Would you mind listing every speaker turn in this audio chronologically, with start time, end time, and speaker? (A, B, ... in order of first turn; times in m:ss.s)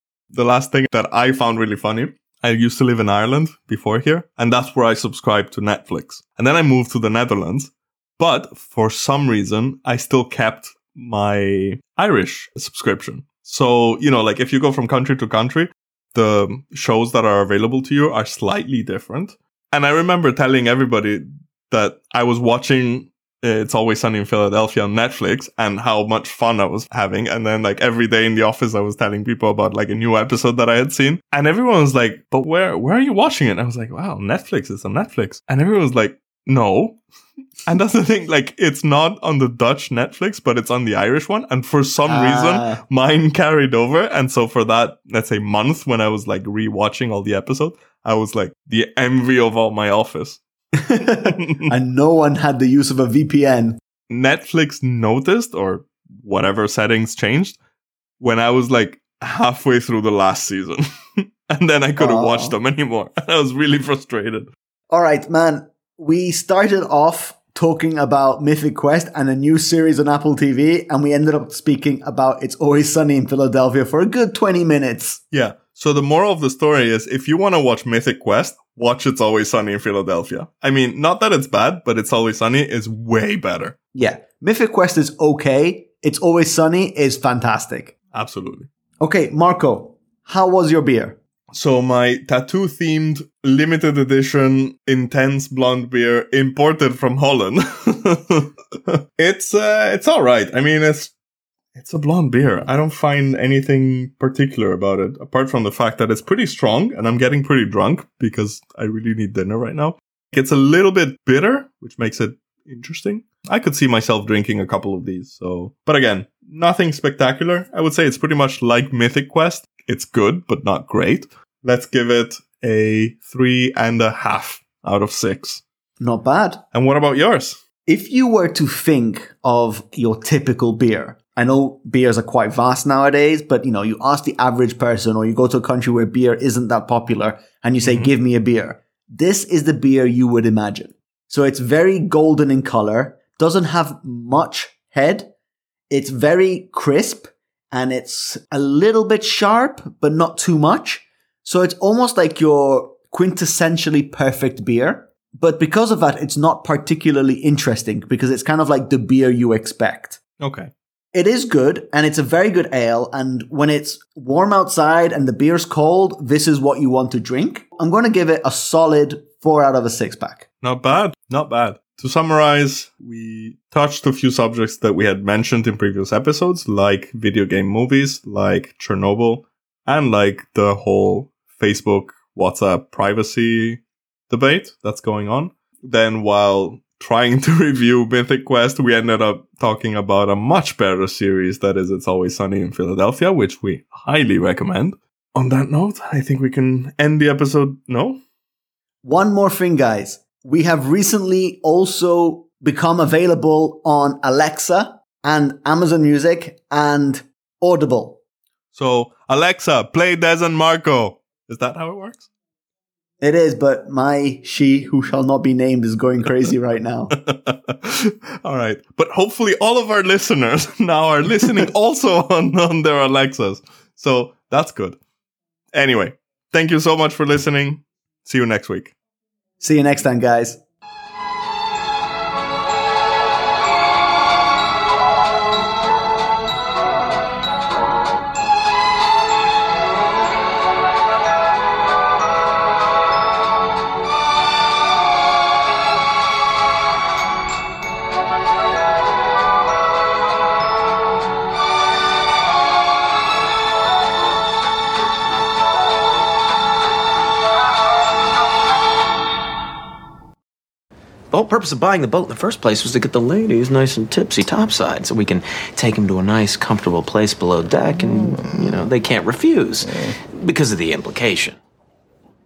0:00.3-0:37.0 A
0:37.7-0:50.4 A
0:42.0-0:42.8 B
0:50.8-0:53.8 B
0:51.0-0:51.7 A
0:54.1-0:57.6 A
0:58.2-1:04.5 A
1:02.0-1:02.6 B
1:04.9-1:15.2 B
1:15.3-1:23.7 A
1:23.9-1:27.9 B
1:28.1-1:28.7 A
1:29.0-1:31.2 B
1:31.5-1:41.1 A
1:41.7-2:05.6 A
2:06.0-2:06.6 B
2:06.7-2:07.6 A
2:07.8-2:25.3 B
2:17.8-2:18.1 A
2:25.9-2:40.2 B
2:40.4-2:40.7 A
2:41.1-2:50.4 B
2:50.6-3:18.2 A
3:19.0-3:28.2 B
3:28.7-3:32.3 A
3:33.2-3:37.1 B
3:37.1-3:45.0 A
3:45.7-3:48.9 A
3:49.6-3:50.6 B
4:21.3-4:31.6 C